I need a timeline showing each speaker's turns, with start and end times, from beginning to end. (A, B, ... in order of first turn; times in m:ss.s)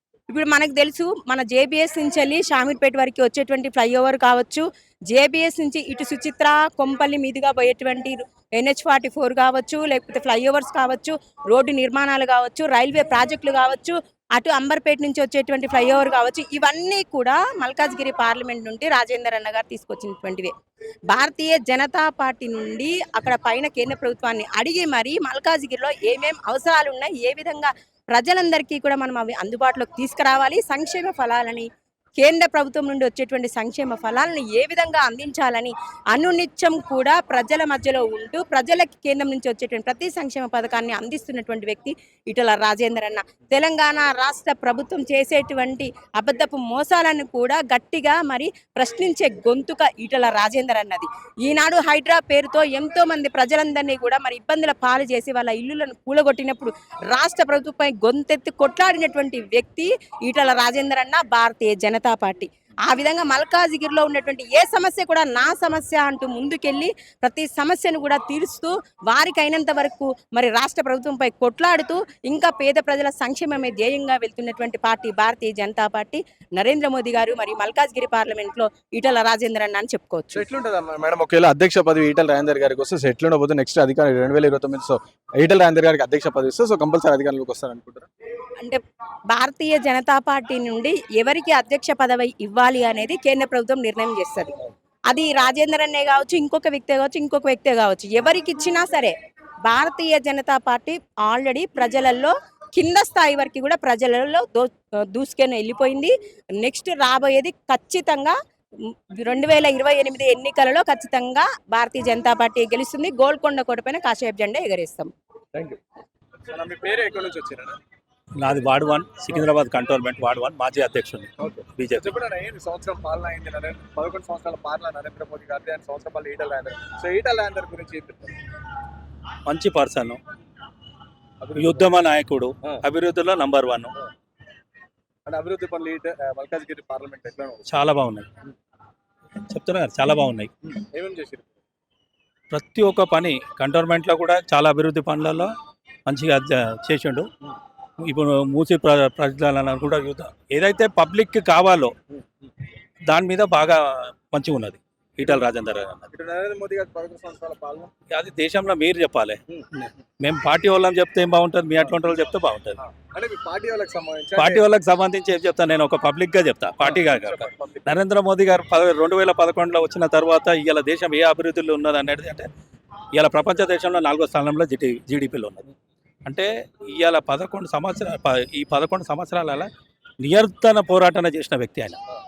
0:00.3-0:20.5 A
0:21.1-1:20.5 A
1:20.4-1:28.1 B
1:28.6-1:34.5 A
1:35.1-1:48.3 A
1:48.8-1:55.1 A
1:55.5-1:55.8 B
1:56.5-1:57.8 B
1:58.4-2:02.2 C
2:01.4-2:08.3 B
2:09.4-2:10.2 C
2:11.4-2:11.8 B
2:11.5-2:13.9 C
2:15.2-2:17.6 B
2:17.6-2:18.3 C
2:19.5-2:20.5 C
2:20.8-2:21.5 B
2:22.5-2:25.5 C
2:26.1-2:27.3 C
2:28.0-2:31.9 C
2:33.1-2:36.0 C
2:36.1-2:37.9 B
2:38.1-2:42.8 C
2:42.8-2:44.6 B
2:44.3-2:52.5 C
2:46.8-2:47.9 B
2:53.1-2:55.7 C
2:56.2-2:59.7 C
3:00.2-3:02.0 C